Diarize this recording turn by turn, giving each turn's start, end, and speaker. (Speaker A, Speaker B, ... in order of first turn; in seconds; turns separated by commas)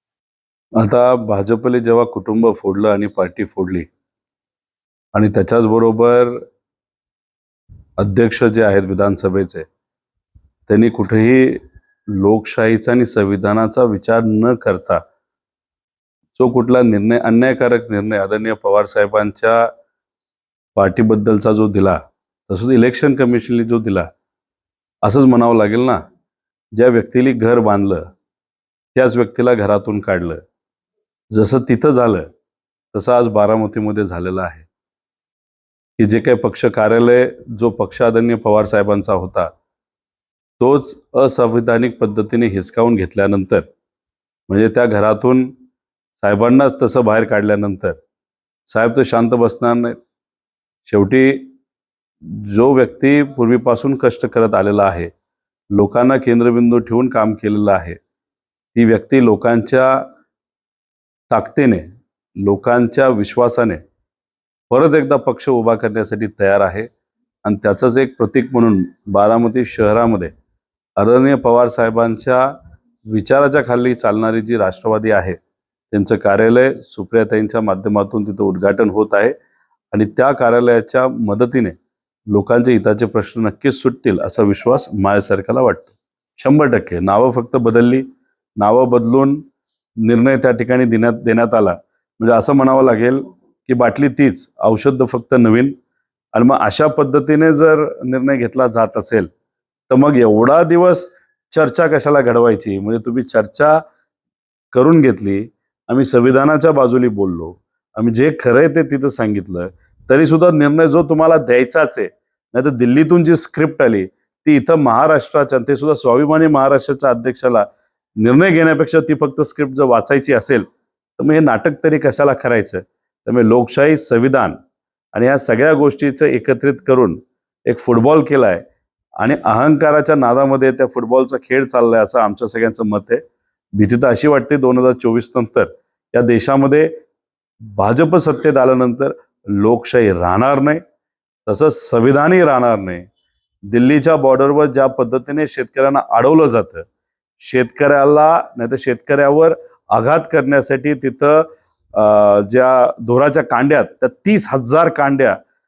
Speaker A: 0.8-3.9, Speaker A: 5.1-6.4, Speaker A: 8.0-9.7, Speaker A: 10.7-11.6, Speaker A: 12.1-15.0, Speaker A: 16.4-19.7, Speaker A: 20.8-24.1, Speaker A: 25.0-26.0, Speaker A: 26.7-28.1, Speaker A: 28.9-30.4, Speaker A: 31.3-32.3, Speaker A: 32.9-34.7, Speaker A: 36.0-39.5, Speaker A: 40.6-43.7, Speaker A: 44.5-45.5, Speaker A: 46.2-48.0, Speaker A: 48.7-50.0, Speaker A: 50.9-51.5, Speaker A: 52.2-55.1, Speaker A: 55.7-58.0, Speaker A: 58.8-60.0, Speaker A: 61.3-63.8, Speaker A: 64.7-66.9, Speaker A: 67.4-70.3, Speaker A: 71.0-72.5, Speaker A: 73.1-75.4, Speaker A: 75.9-79.3, Speaker A: 79.9-81.8, Speaker A: 82.3-88.0, Speaker A: 88.6-89.4, Speaker A: 90.0-95.7, Speaker A: 96.3-99.3, Speaker A: 99.9-103.8, Speaker A: 104.7-117.7, Speaker A: 118.2-120.7, Speaker A: 121.2-124.6, Speaker A: 125.1-128.7, Speaker A: 129.2-133.2, Speaker A: 133.8-136.9, Speaker A: 137.7-140.8, Speaker A: 141.5-143.1, Speaker A: 143.7-146.9, Speaker A: 147.4-155.4